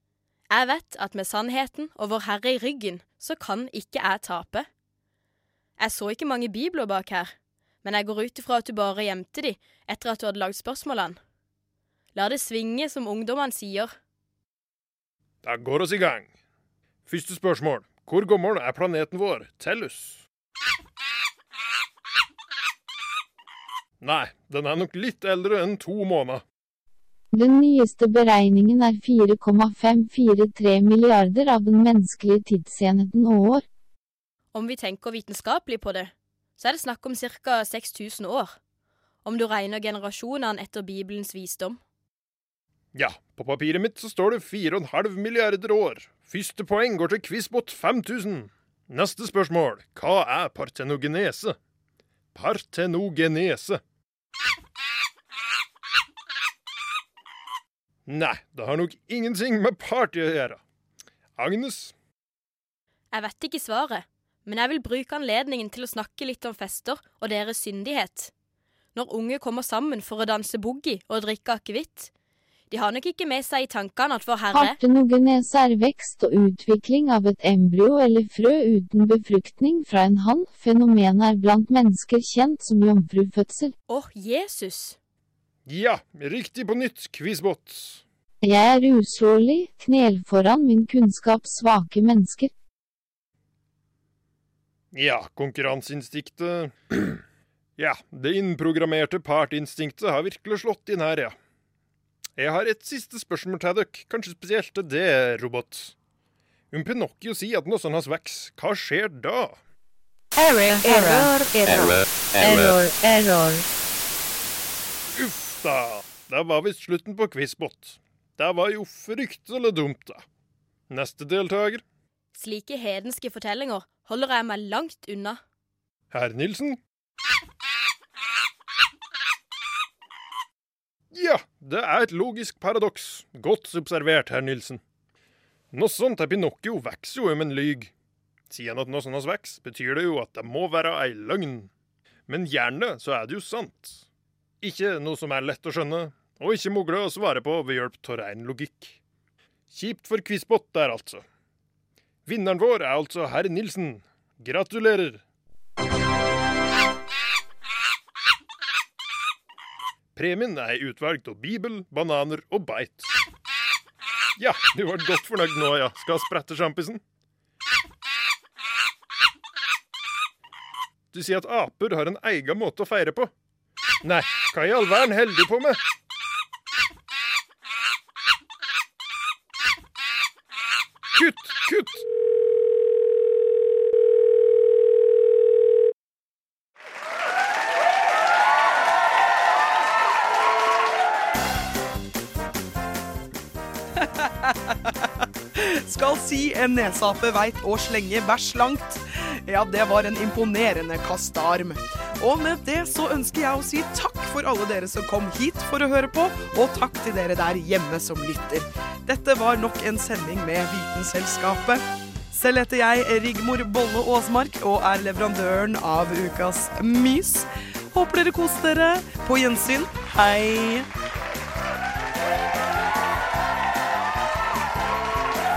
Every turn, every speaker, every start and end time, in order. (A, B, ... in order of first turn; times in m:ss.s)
0:00.5-0:04.7 A
0:05.8-0:07.3 A
0:07.8-0:11.2 A
0:12.2-0:14.0 A
0:15.4-0:16.3 B
0:17.1-0:20.2 B
0:24.0-0:26.4 B
0:27.3-0:33.6 C
0:34.5-0:38.6 A
0:39.2-0:41.8 A
0:43.0-0:51.6 B
0:52.4-0:53.8 B
0:58.1-1:00.6 B
1:01.4-1:01.9 B
1:03.1-1:08.3 A
1:09.0-1:12.1 A
1:12.7-1:14.8 A
1:14.5-1:23.7 C
1:23.9-1:25.0 A
1:25.7-1:28.0 B
1:28.4-1:32.5 C
1:34.9-1:37.2 B
1:37.8-1:41.4 B
1:42.4-1:45.9 B
1:46.7-1:49.6 B
1:50.4-1:51.8 D
1:52.4-1:53.6 D
1:55.2-2:00.2 B
2:00.9-2:01.8 B
2:02.4-2:05.4 A
2:06.1-2:06.8 B
2:11.1-2:14.8 B
2:15.7-2:17.9 B
2:18.5-2:21.7 B
2:22.3-2:24.0 B
2:24.6-2:29.0 B
2:29.7-2:31.2 B
2:32.3-2:35.2 B
2:40.2-2:43.1 B
2:44.4-2:47.0 B
2:51.1-2:53.3 B
2:54.0-2:55.8 B
3:01.1-3:02.0 B
3:14.0-3:40.9 E